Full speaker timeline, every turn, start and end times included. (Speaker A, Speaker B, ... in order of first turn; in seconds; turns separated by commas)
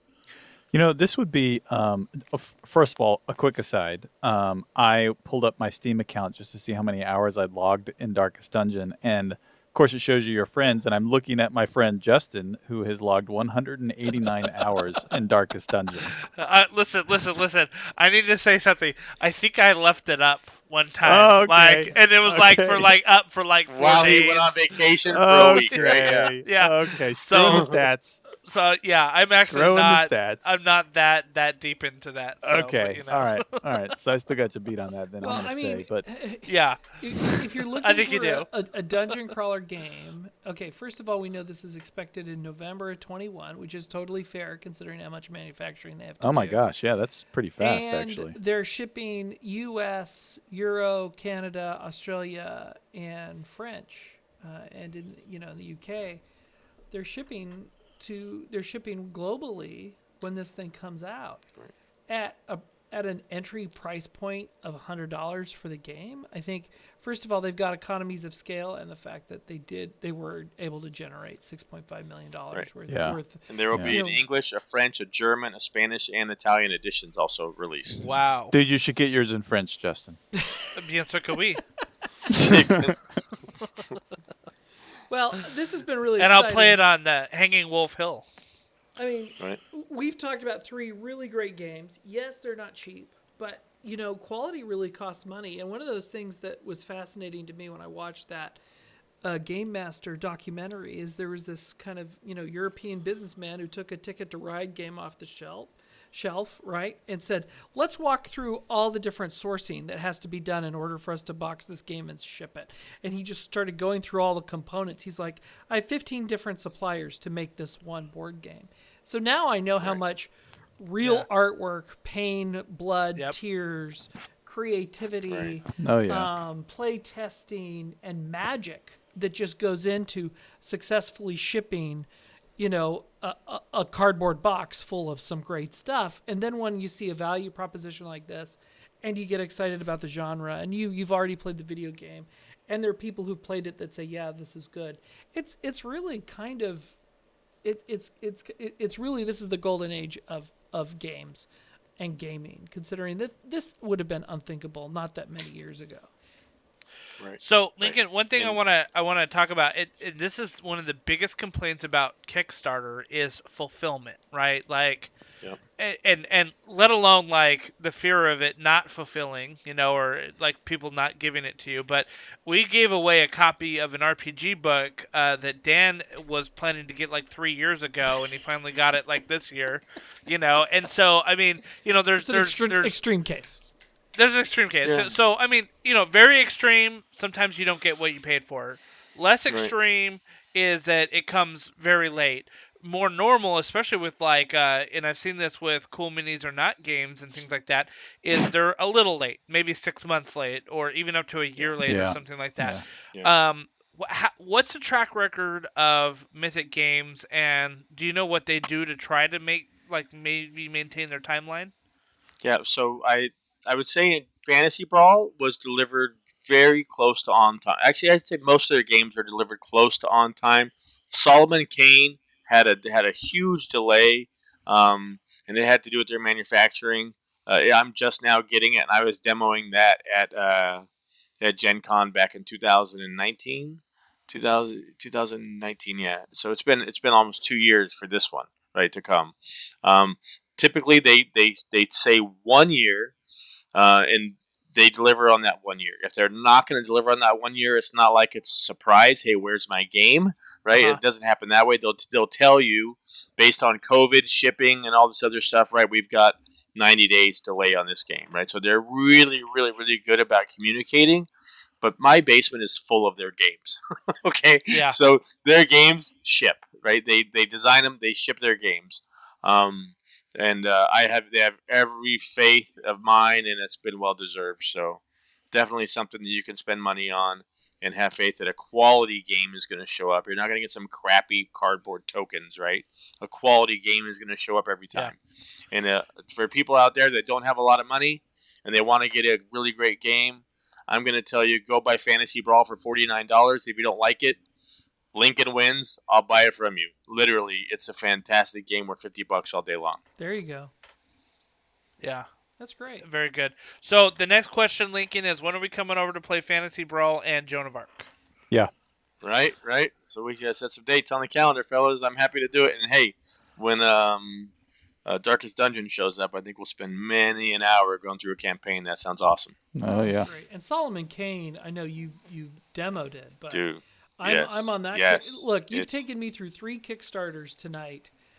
Speaker A: 0.7-16.1, Speaker B: 16.3-24.8, Speaker A: 21.0-22.9, Speaker C: 23.7-26.4, Speaker A: 25.1-28.2, Speaker B: 25.7-27.8, Speaker B: 28.4-33.6, Speaker A: 29.4-30.6, Speaker A: 32.4-36.1, Speaker D: 35.2-46.6, Speaker B: 36.5-38.6, Speaker A: 46.2-48.4, Speaker D: 47.6-56.2, Speaker D: 56.9-61.4, Speaker D: 62.1-74.2, Speaker A: 72.9-73.2, Speaker C: 73.5-78.1, Speaker A: 73.7-74.0, Speaker B: 78.0-78.5, Speaker A: 78.5-80.2, Speaker D: 80.4-80.7, Speaker B: 80.7-81.6, Speaker A: 82.3-82.8, Speaker C: 82.3-83.0, Speaker D: 85.1-86.8, Speaker B: 86.2-88.2, Speaker D: 89.0-98.6, Speaker D: 99.2-147.0, Speaker B: 121.0-121.3, Speaker C: 125.3-125.6, Speaker A: 125.8-126.3, Speaker D: 147.6-156.1, Speaker C: 157.2-158.6, Speaker B: 157.4-165.1, Speaker B: 165.8-183.0, Speaker D: 182.2-183.6, Speaker B: 184.2-211.7, Speaker C: 184.8-185.1, Speaker A: 201.8-202.8, Speaker C: 212.4-230.9, Speaker C: 231.4-243.2, Speaker C: 243.7-261.3, Speaker B: 250.7-251.0, Speaker C: 261.8-285.2, Speaker B: 264.7-265.0, Speaker C: 285.7-294.4, Speaker C: 295.1-300.0, Speaker D: 300.2-300.7, Speaker B: 302.0-302.3, Speaker D: 302.6-303.1, Speaker B: 303.0-308.1, Speaker C: 309.2-314.5, Speaker C: 315.1-319.6, Speaker A: 319.7-320.3, Speaker D: 319.9-323.6, Speaker C: 323.5-326.0, Speaker D: 324.2-328.1